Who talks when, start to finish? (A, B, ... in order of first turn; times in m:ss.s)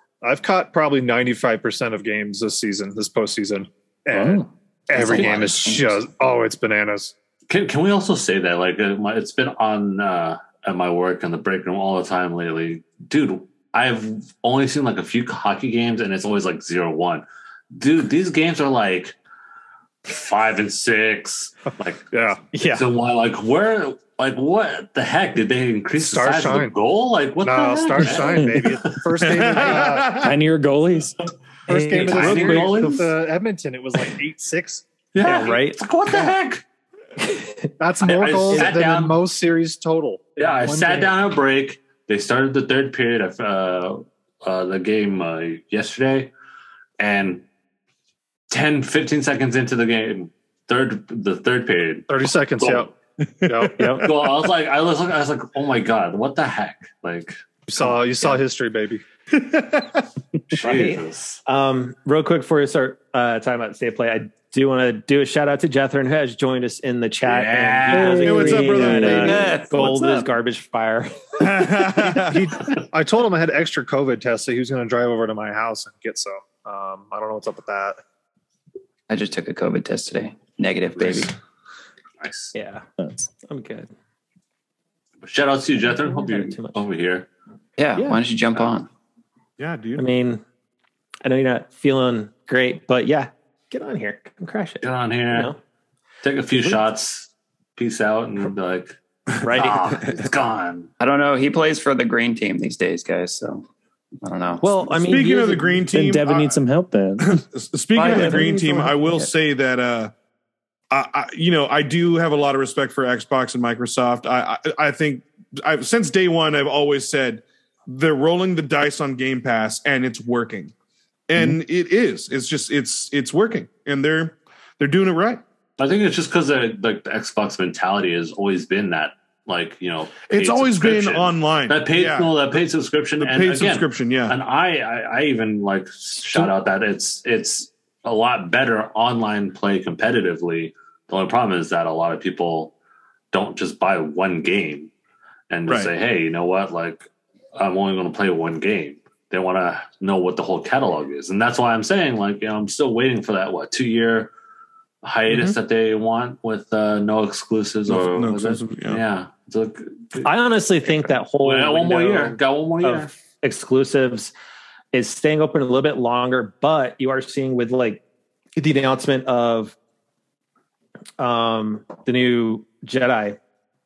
0:00.2-0:07.1 A
0:04.1-0:04.4 B
0:04.9-0:06.0 C
0:07.5-0:19.1 D
0:20.0-0:22.1 D
0:22.1-0:22.4 A
0:22.5-0:22.8 E
0:22.7-0:29.0 D
0:26.0-0:26.7 A
0:27.4-0:30.2 A
0:28.2-0:28.6 B
0:29.2-0:30.4 F
0:30.2-0:31.2 B
0:31.7-0:33.0 E
0:31.7-0:34.8 A
0:31.9-0:33.1 D
0:35.1-0:36.6 D
0:35.2-0:35.8 E
0:37.2-0:37.7 E
0:37.8-0:41.2 A
0:38.0-0:39.2 D
0:38.5-0:38.8 E
0:40.4-0:46.3 D
0:47.0-0:47.4 D
0:48.5-0:52.9 D
0:52.1-0:52.9 A
0:53.4-0:54.1 F
0:53.4-0:53.8 A
0:53.8-0:54.1 E
0:54.0-0:57.4 D
0:57.7-0:59.0 A
0:59.3-1:00.0 F
1:00.5-1:01.4 D
1:00.6-1:11.7 E
1:07.2-1:08.4 D
1:07.9-1:09.4 B
1:08.2-1:09.4 F
1:09.1-1:10.3 C
1:11.4-1:12.5 F
1:12.0-1:18.0 A
1:19.1-1:21.3 C
1:21.0-1:21.3 D
1:22.2-1:22.5 D
1:22.5-1:22.8 E
1:23.4-1:23.9 E
1:25.2-1:27.3 D
1:25.8-1:26.8 E
1:27.8-1:28.9 C
1:29.6-1:30.0 F
1:30.0-1:30.4 E
1:31.2-1:35.6 E
1:34.8-1:35.5 D
1:36.2-1:39.0 D
1:39.4-1:40.0 E
1:39.5-1:40.9 D
1:41.0-1:43.6 C
1:44.2-1:44.7 C
1:44.6-1:45.8 E
1:44.9-1:46.6 F
1:45.9-1:47.4 B
1:47.2-1:50.1 F
1:48.0-1:49.1 E
1:48.0-1:48.5 C
1:50.9-2:00.7 F
2:01.3-2:05.4 F
2:05.8-2:22.7 D
2:10.3-2:12.3 F
2:13.2-2:14.4 F
2:23.3-2:24.9 D
2:25.5-2:34.3 D
2:35.0-2:40.3 D
2:37.9-2:39.0 F
2:40.2-2:44.3 E
2:41.4-2:43.1 D
2:44.9-2:48.0 E
2:48.6-2:49.8 E
2:51.2-2:53.4 E